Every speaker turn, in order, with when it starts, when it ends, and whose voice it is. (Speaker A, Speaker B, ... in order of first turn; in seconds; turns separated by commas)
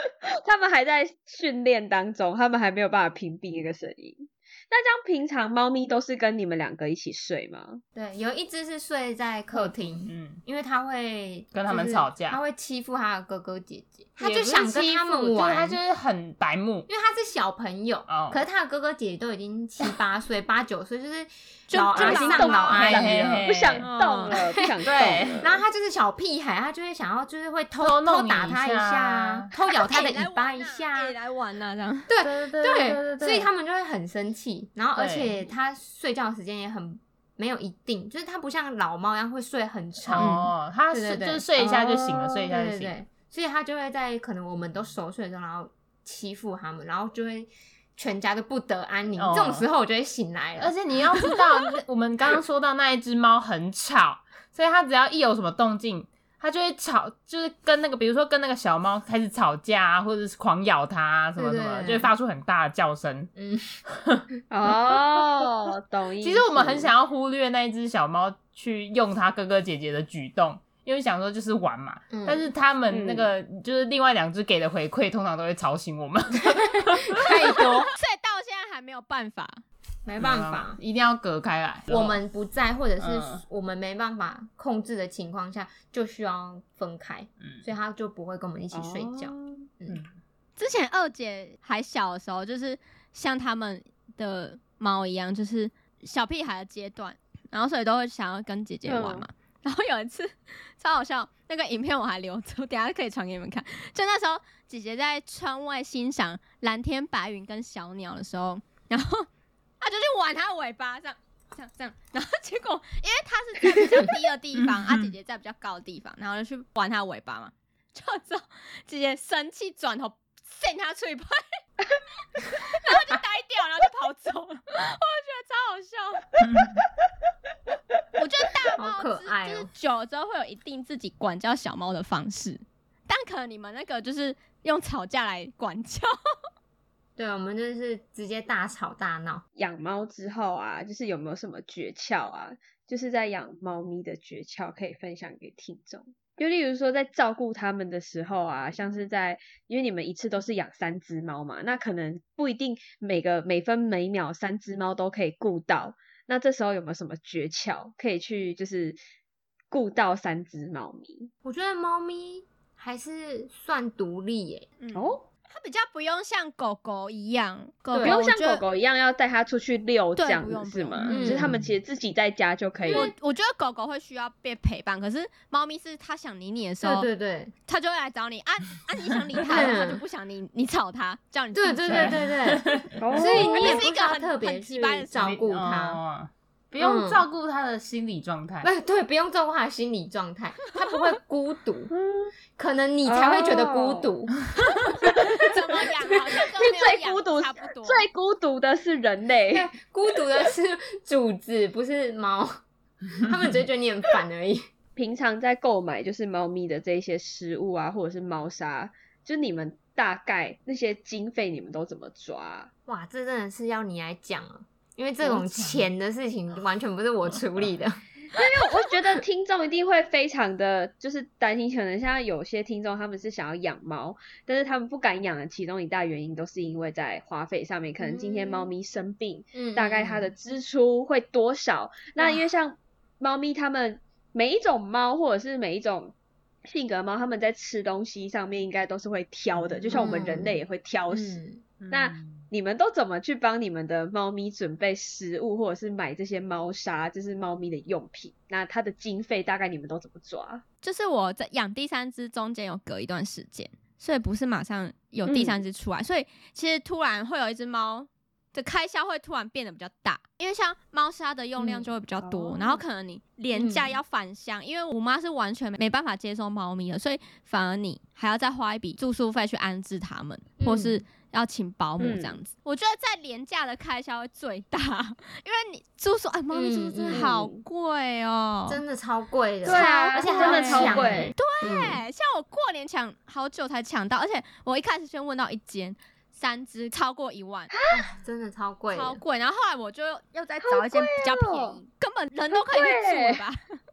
Speaker A: 0.3-7.8, Speaker B: 7.9-15.8, Speaker C: 9.5-10.4, Speaker C: 11.5-12.4, Speaker C: 14.2-16.9, Speaker B: 16.9-23.4, Speaker C: 18.1-18.4, Speaker D: 21.7-22.9, Speaker A: 21.9-25.6, Speaker C: 22.7-23.9, Speaker D: 23.8-24.4, Speaker B: 24.3-31.2, Speaker C: 24.8-25.5, Speaker C: 27.8-29.5, Speaker D: 29.5-32.1, Speaker B: 32.1-50.7, Speaker C: 32.2-33.5, Speaker C: 34.9-35.4, Speaker C: 40.0-42.9, Speaker C: 49.1-49.6, Speaker C: 50.6-63.3, Speaker B: 61.4-62.1, Speaker B: 63.4-63.8, Speaker C: 63.9-64.2, Speaker A: 64.5-66.9, Speaker C: 66.2-77.7, Speaker B: 72.1-72.5, Speaker A: 72.9-73.3, Speaker B: 76.8-77.9, Speaker D: 78.0-79.6, Speaker B: 80.0-80.8, Speaker C: 80.2-82.2, Speaker B: 81.9-90.0, Speaker C: 83.0-83.4, Speaker C: 87.4-87.7, Speaker A: 88.7-89.7, Speaker D: 90.6-109.3, Speaker A: 98.8-99.2, Speaker D: 109.8-121.4, Speaker C: 114.5-115.1, Speaker D: 122.4-126.3, Speaker C: 126.4-126.8, Speaker D: 128.1-136.1, Speaker B: 128.8-129.7, Speaker B: 137.2-139.4, Speaker A: 139.6-159.0, Speaker A: 159.7-161.3, Speaker B: 161.4-164.7, Speaker D: 164.8-168.6, Speaker A: 164.9-165.2, Speaker B: 167.9-168.2, Speaker A: 168.0-173.1, Speaker D: 170.2-171.2, Speaker C: 171.0-171.7, Speaker B: 171.1-171.6, Speaker B: 172.8-173.1, Speaker D: 172.9-177.1, Speaker B: 176.8-177.5, Speaker D: 177.7-182.2, Speaker B: 179.4-180.0, Speaker B: 181.5-186.0, Speaker C: 181.9-183.3, Speaker A: 183.0-183.8, Speaker D: 183.3-185.4, Speaker C: 185.2-188.7, Speaker B: 186.8-187.2, Speaker B: 188.6-191.9, Speaker A: 191.9-192.3, Speaker B: 192.6-194.4, Speaker A: 193.0-194.1, Speaker B: 195.0-195.5, Speaker A: 195.0-195.5, Speaker D: 195.4-198.1, Speaker B: 196.0-196.4, Speaker A: 196.6-199.7, Speaker B: 199.5-202.6, Speaker B: 203.1-204.7, Speaker A: 204.9-212.7, Speaker B: 212.9-218.0, Speaker C: 215.2-215.8, Speaker A: 218.3-250.6, Speaker B: 228.0-228.7, Speaker B: 229.5-230.3, Speaker B: 232.2-232.4, Speaker B: 239.8-240.6, Speaker B: 241.1-241.6, Speaker C: 241.8-242.4, Speaker D: 250.8-278.8, Speaker A: 255.2-255.6, Speaker A: 261.6-262.8, Speaker B: 263.5-264.0, Speaker B: 270.6-271.0, Speaker A: 272.0-272.4, Speaker B: 276.5-277.3, Speaker A: 277.1-277.6, Speaker B: 278.7-282.0, Speaker A: 279.6-281.7, Speaker D: 279.6-287.7, Speaker A: 287.7-288.1, Speaker B: 287.9-289.2, Speaker D: 288.9-293.7, Speaker A: 290.6-291.8, Speaker A: 292.5-293.4